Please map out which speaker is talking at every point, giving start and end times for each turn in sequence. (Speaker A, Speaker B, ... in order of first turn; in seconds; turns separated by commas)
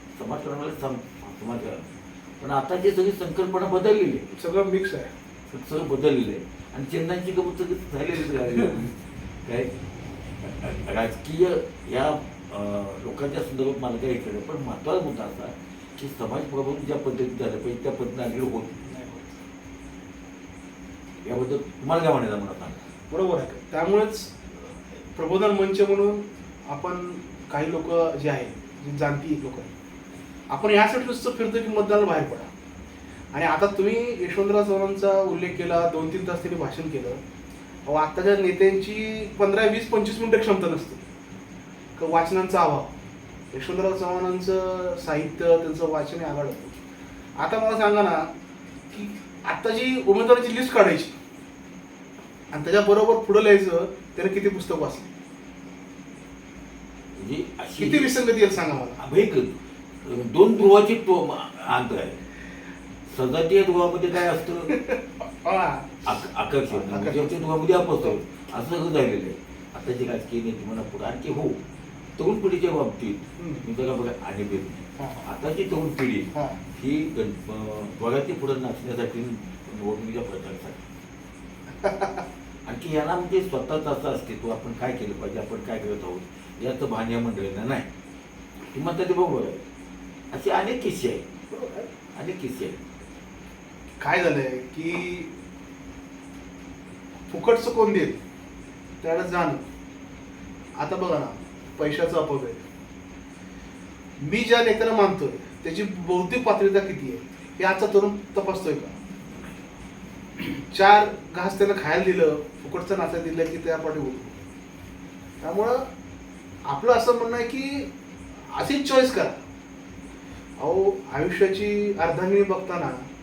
Speaker A: 0.2-1.9, Speaker A: 2.4-4.2, Speaker B: 4.3-5.1, Speaker A: 5.5-9.7, Speaker A: 10.4-18.8, Speaker B: 18.8-19.4, Speaker A: 21.2-22.8, Speaker B: 23.1-24.3, Speaker B: 25.1-29.7, Speaker B: 30.5-32.5, Speaker B: 33.3-37.2, Speaker B: 37.9-41.0, Speaker B: 42.0-42.9, Speaker B: 43.5-46.7, Speaker B: 47.4-48.3, Speaker B: 48.9-51.1, Speaker B: 52.5-55.1, Speaker A: 57.1-58.1, Speaker B: 57.8-59.0, Speaker A: 59.0-62.2, Speaker A: 63.1-64.7, Speaker B: 64.7-66.1, Speaker A: 66.0-71.6, Speaker B: 66.7-67.4, Speaker A: 72.2-80.8, Speaker B: 73.4-73.7, Speaker B: 75.0-75.3, Speaker B: 76.3-76.6, Speaker B: 81.7-82.2, Speaker A: 82.6-87.9, Speaker A: 88.7-89.6, Speaker A: 90.3-91.3, Speaker B: 91.5-91.9, Speaker A: 92.1-92.9, Speaker B: 94.0-95.3, Speaker B: 97.3-98.2, Speaker B: 99.0-99.6, Speaker B: 100.8-102.6, Speaker B: 104.2-108.9, Speaker B: 110.5-114.4, Speaker B: 115.4-115.9, Speaker B: 116.7-117.9, Speaker B: 118.5-119.4, Speaker B: 120.6-123.0